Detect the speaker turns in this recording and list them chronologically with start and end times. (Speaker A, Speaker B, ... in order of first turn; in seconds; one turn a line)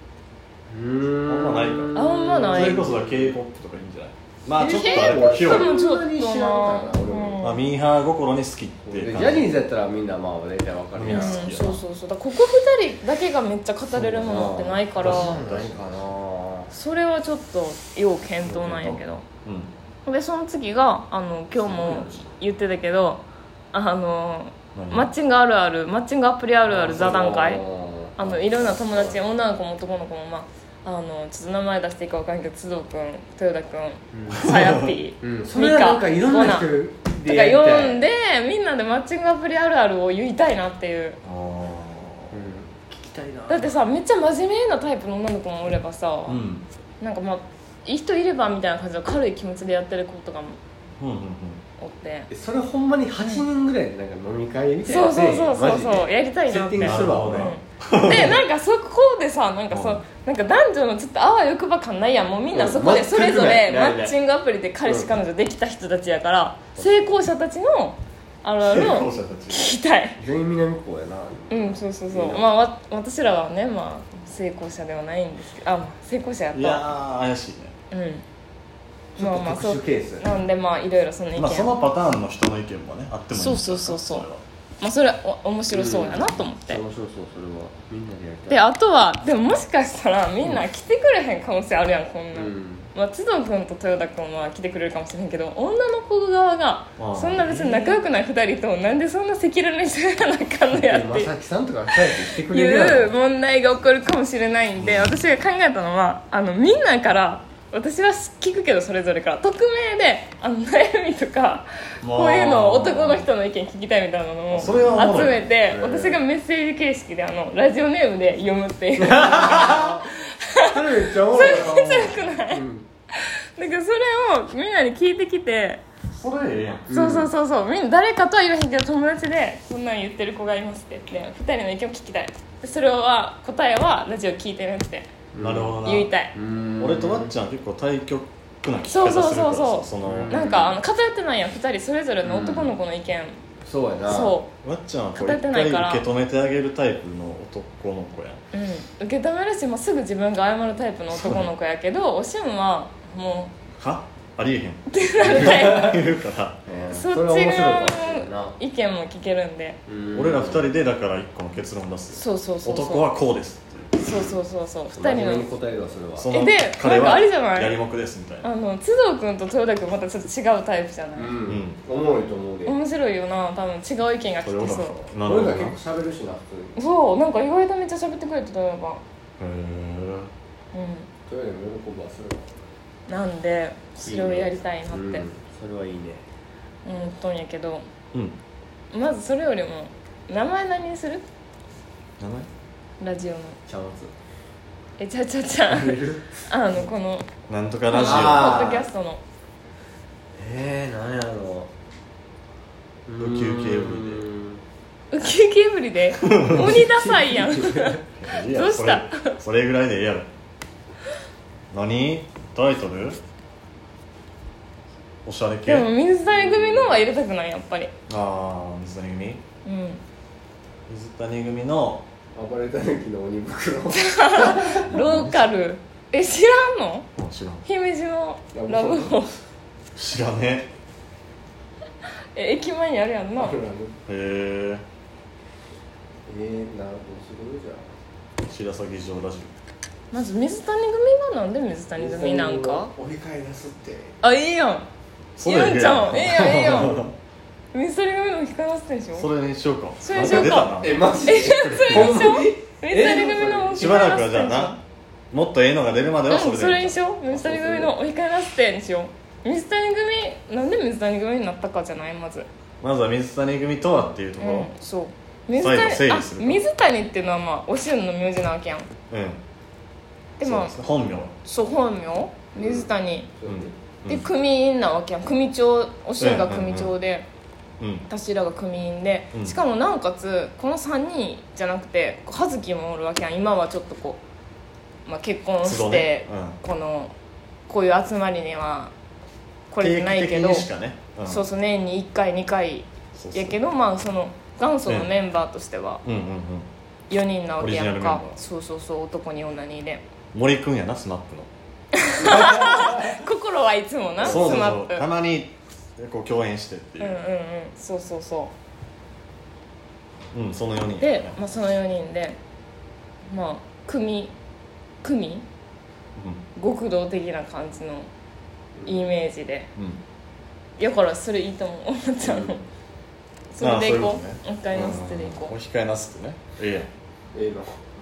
Speaker A: 0.7-3.4
Speaker B: 1.3-1.9
Speaker C: 1.9-2.8
Speaker B: 2.5-5.7
Speaker A: 4.5-7.5
Speaker C: 4.7-7.6
Speaker B: 7.4-9.5
Speaker A: 8.9-11.7
Speaker B: 10.9-11.8
Speaker C: 11.1-15.4
Speaker A: 13.9-16.7
Speaker B: 15.0-16.1
Speaker C: 16.7-19.2
Speaker A: 18.5-18.9
Speaker B: 18.6-19.7
Speaker C: 20.1-27.6
Speaker A: 21.5-22.3
Speaker B: 24.8-25.1
Speaker A: 26.7-29.2
Speaker C: 28.2-41.2
Speaker A: 34.1-34.5
Speaker B: 34.3-34.8
Speaker A: 35.2-38.0
Speaker B: 41.2-42.4
Speaker A: 42.3-43.7
Speaker C: 43.5-46.4
Speaker B: 46.3-46.6
Speaker C: 47.0-50.6
Speaker B: 51.0-51.6
Speaker C: 51.8-52.3
Speaker A: 52.3-57.5
Speaker C: 54.9-70.2
Speaker B: 56.8-58.4
Speaker B: 59.7-60.0
Speaker A: 62.5-64.2
Speaker A: 64.8-65.1
Speaker B: 66.8-67.1
Speaker B: 68.6-69.7
Speaker A: 70.2-72.5
Speaker C: 71.5-76.9
Speaker B: 76.5-77.7
Speaker C: 77.9-78.2
Speaker A: 79.2-80.3
Speaker C: 79.2-81.7
Speaker B: 81.4-84.4
Speaker C: 83.3-84.3
Speaker C: 84.8-86.8
Speaker A: 85.7-88.6
Speaker C: 88.5-101.3
Speaker A: 92.3-92.9
Speaker B: 97.0-98.0
Speaker A: 100.7-103.1
Speaker C: 101.9-125.8
Speaker B: 104.8-105.2
Speaker B: 112.0-113.3
Speaker B: 114.5-115.4
Speaker A: 114.6-115.0
Speaker A: 115.6-116.2
Speaker A: 119.0-120.0
Speaker B: 119.5-120.0
Speaker A: 120.7-121.9
Speaker B: 121.3-122.4
Speaker A: 122.5-122.9
Speaker B: 126.1-126.9
Speaker A: 126.9-127.3
Speaker C: 126.9-135.1
Speaker A: 135.3-135.8
Speaker B: 135.4-136.1
Speaker C: 135.8-136.3
Speaker A: 136.3-137.3
Speaker B: 136.8-140.3
Speaker C: 138.9-143.4
Speaker A: 140.0-140.8
Speaker A: 142.2-142.8
Speaker A: 143.6-144.4
Speaker C: 144.1-144.5
Speaker B: 144.6-148.4
Speaker C: 145.2-146.1
Speaker C: 148.5-153.5
Speaker B: 153.8-156.6
Speaker C: 154.9-156.0
Speaker A: 155.4-155.9
Speaker A: 156.7-158.6
Speaker C: 156.9-159.8
Speaker A: 159.9-160.7
Speaker B: 160.1-164.3
Speaker C: 162.1-163.1
Speaker C: 164.0-165.5
Speaker A: 164.9-166.3
Speaker B: 166.2-168.5
Speaker C: 166.3-167.8
Speaker C: 168.4-171.4
Speaker A: 171.2-172.8
Speaker B: 171.5-171.8
Speaker C: 172.7-175.0
Speaker B: 174.4-175.8
Speaker A: 175.2-176.8
Speaker C: 176.8-179.0
Speaker B: 179.4-180.3
Speaker C: 180.7-181.1
Speaker A: 181.3-182.5
Speaker C: 183.1-185.3
Speaker A: 184.0-186.2
Speaker C: 186.9-187.8
Speaker C: 188.9-191.2
Speaker B: 192.2-192.5
Speaker C: 193.0-193.6
Speaker A: 193.7-194.1
Speaker C: 195.0-197.3
Speaker A: 195.7-196.4
Speaker B: 197.5-198.8
Speaker C: 197.9-199.2
Speaker A: 198.0-198.9
Speaker A: 200.3-201.7
Speaker A: 203.1-204.6
Speaker B: 203.2-204.3
Speaker C: 205.1-209.4
Speaker B: 206.2-206.8
Speaker A: 206.5-208.0
Speaker B: 208.2-210.3
Speaker B: 211.7-213.2
Speaker B: 215.2-215.9
Speaker C: 215.7-217.9
Speaker A: 216.3-217.1
Speaker B: 218.1-219.4
Speaker C: 219.7-220.0
Speaker B: 220.9-222.1
Speaker A: 222.3-224.9
Speaker C: 223.9-227.1
Speaker B: 224.9-225.5
Speaker B: 227.2-227.6
Speaker C: 227.7-229.3
Speaker A: 228.5-229.3
Speaker B: 229.9-230.7
Speaker C: 232.3-233.6
Speaker A: 233.4-233.9
Speaker B: 234.1-234.8
Speaker A: 236.3-237.9
Speaker B: 238.4-239.5
Speaker C: 240.1-242.9
Speaker A: 242.0-244.2
Speaker C: 244.2-244.9
Speaker B: 245.4-247.2
Speaker C: 245.4-247.0
Speaker C: 247.7-249.3
Speaker B: 249.2-252.3
Speaker C: 250.0-254.8
Speaker A: 250.1-254.0
Speaker B: 253.8-257.0
Speaker C: 256.3-262.5
Speaker A: 257.3-257.9
Speaker B: 262.8-264.7
Speaker C: 264.4-268.9
Speaker B: 265.5-266.6
Speaker B: 269.1-269.4
Speaker C: 270.4-270.8
Speaker B: 270.4-271.3
Speaker C: 271.4-273.3
Speaker A: 272.6-273.7
Speaker B: 273.5-274.2
Speaker C: 274.1-277.3
Speaker B: 276.2-276.9
Speaker B: 277.8-278.1
Speaker C: 278.1-284.2
Speaker C: 285.1-287.1
Speaker B: 285.6-286.6
Speaker C: 287.7-288.9
Speaker C: 289.7-290.7
Speaker B: 289.8-291.4
Speaker C: 291.3-296.0
Speaker B: 293.2-293.6
Speaker B: 296.0-296.7
Speaker C: 297.1-300.0
Speaker B: 297.6-298.4
Speaker B: 300.3-301.5
Speaker C: 302.0-305.1
Speaker A: 302.4-303.2
Speaker B: 304.2-307.2
Speaker A: 304.2-304.6
Speaker C: 307.0-308.5
Speaker B: 310.3-311.4
Speaker C: 311.0-312.4
Speaker C: 313.3-314.3
Speaker C: 315.0-315.4
Speaker B: 316.2-316.4
Speaker C: 316.6-318.1
Speaker A: 318.8-319.1
Speaker C: 318.9-319.7
Speaker B: 319.8-320.0
Speaker C: 320.8-322.6
Speaker A: 322.2-322.6
Speaker C: 323.5-325.6
Speaker B: 323.6-326.9
Speaker A: 327.3-327.8